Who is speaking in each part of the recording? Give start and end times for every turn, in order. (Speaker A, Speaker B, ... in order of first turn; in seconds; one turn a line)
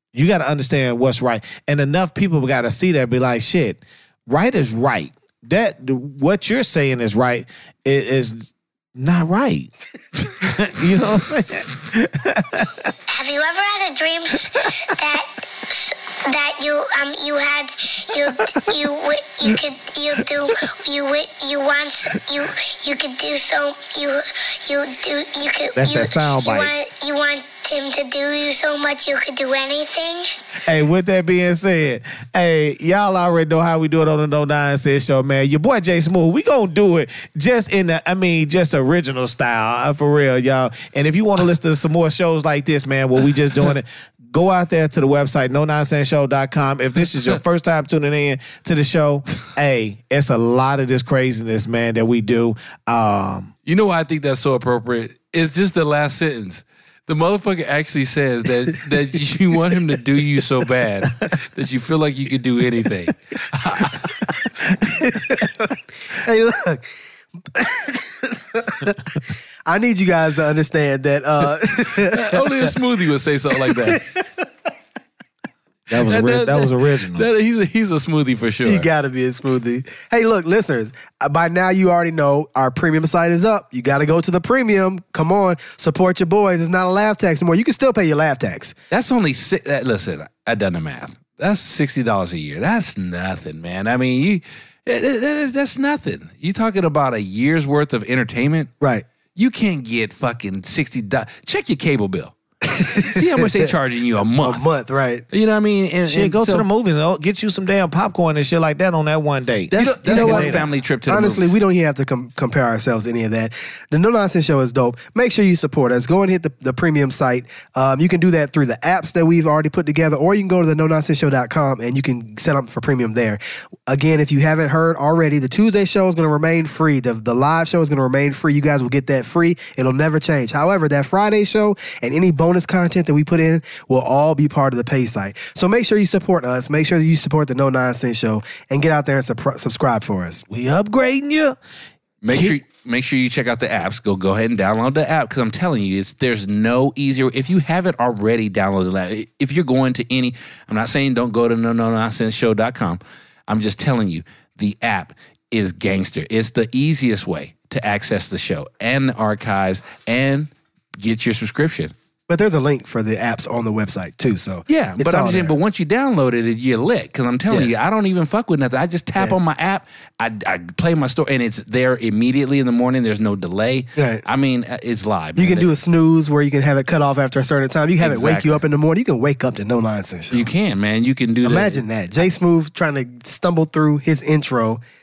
Speaker A: 0.1-9.7
Speaker A: 10.4-12.9
Speaker B: 13.1-30.4
Speaker A: 25.8-26.7
Speaker A: 30.6-53.5
Speaker C: 53.6-64.2
Speaker D: 64.7-66.8
Speaker D: 67.5-72.5
Speaker C: 71.9-74.0
Speaker D: 73.6-74.4
Speaker A: 75.9-77.2
Speaker C: 76.0-78.9
Speaker D: 78.6-88.7
Speaker C: 88.9-98.7
Speaker C: 99.3-102.3
Speaker D: 102.7-103.5
Speaker C: 102.9-104.6
Speaker D: 104.4-105.2
Speaker C: 105.3-106.7
Speaker A: 106.0-110.7
Speaker C: 109.7-111.5
Speaker D: 109.7-140.4
Speaker A: 140.5-141.6
Speaker C: 142.2-161.9
Speaker A: 142.3-142.6
Speaker D: 162.3-165.5
Speaker C: 164.7-175.7
Speaker D: 173.9-174.2
Speaker D: 175.4-180.4
Speaker C: 178.0-178.6
Speaker C: 180.3-181.8
Speaker D: 181.4-184.8